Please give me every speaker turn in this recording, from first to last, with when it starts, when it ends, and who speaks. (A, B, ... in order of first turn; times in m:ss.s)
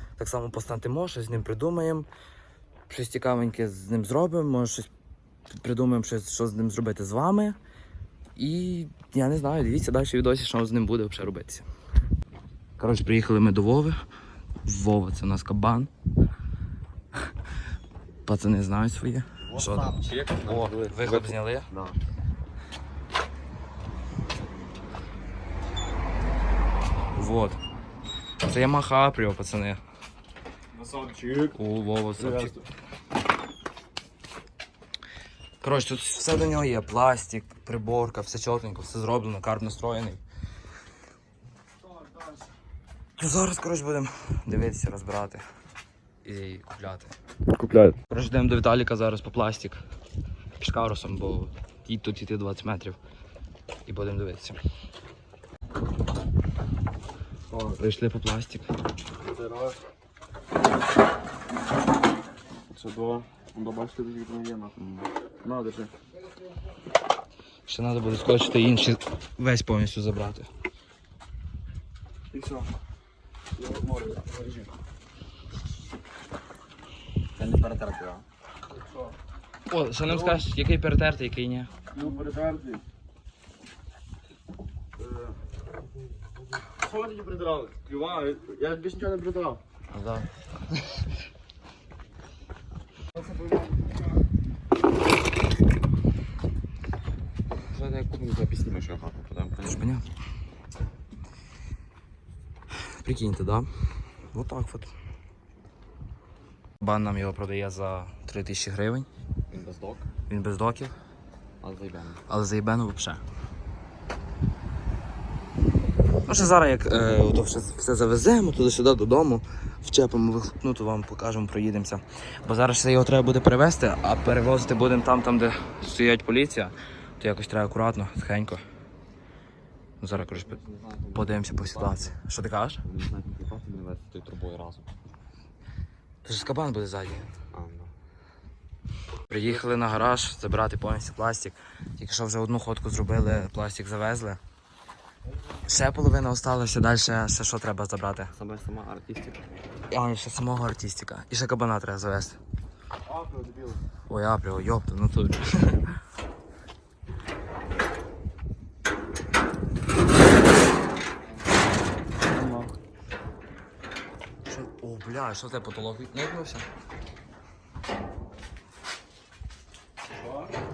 0:00.2-0:02.1 A
0:02.9-0:04.9 A
0:05.5-0:07.6 A
0:08.4-0:11.7 A
0:12.8-0:14.0 A
0:14.6-0:15.9 A
0:18.2-0:21.7 A
0:19.4-0:22.0 B
0:27.2-0:27.6 A
0:28.4-0:29.8 A
0:30.7-0:31.6 C
0:31.5-0:32.5 A
0:32.2-0:32.6 C
0:35.6-0:40.2 A
0:42.0-0:42.4 C
0:43.2-0:45.4 A
0:46.2-0:47.1 A
0:47.6-0:47.9 C
0:48.0-0:49.8 A
0:50.6-0:53.0 A
0:53.9-0:54.6 A
0:57.7-0:58.7 A
0:59.2-0:59.8 C
1:02.7-1:04.8 C
1:05.4-1:05.9 C
1:07.7-1:10.5 A
1:12.3-1:12.7 C
1:13.6-1:14.7 C
1:17.4-1:18.2 B
1:19.7-1:21.7 A
1:20.1-1:20.4 C
1:21.9-1:22.8 C
1:25.0-1:25.4 C
1:26.7-1:29.6 C
1:29.9-1:30.3 A
1:37.7-1:39.8 B
1:39.6-1:40.1 A
1:42.8-1:43.7 A
1:44.3-1:44.9 A
1:46.8-1:49.1 A
1:49.5-1:50.1 B
1:50.3-1:50.9 A
1:51.6-1:52.2 B
1:52.3-1:53.2 A
1:56.2-2:08.6 A
2:10.0-2:10.6 A
2:10.2-2:12.1 B
2:11.1-2:12.8 A
2:12.8-2:14.9 B
2:16.2-2:17.3 A
2:17.5-2:17.9 B
2:19.3-2:24.4 A
2:25.6-2:28.3 A
2:28.3-2:29.4 B
2:29.9-2:32.4 A
2:33.1-2:33.8 C
2:34.1-2:36.0 A
2:42.2-2:42.7 C
2:44.4-2:46.7 A
2:50.2-2:50.5 C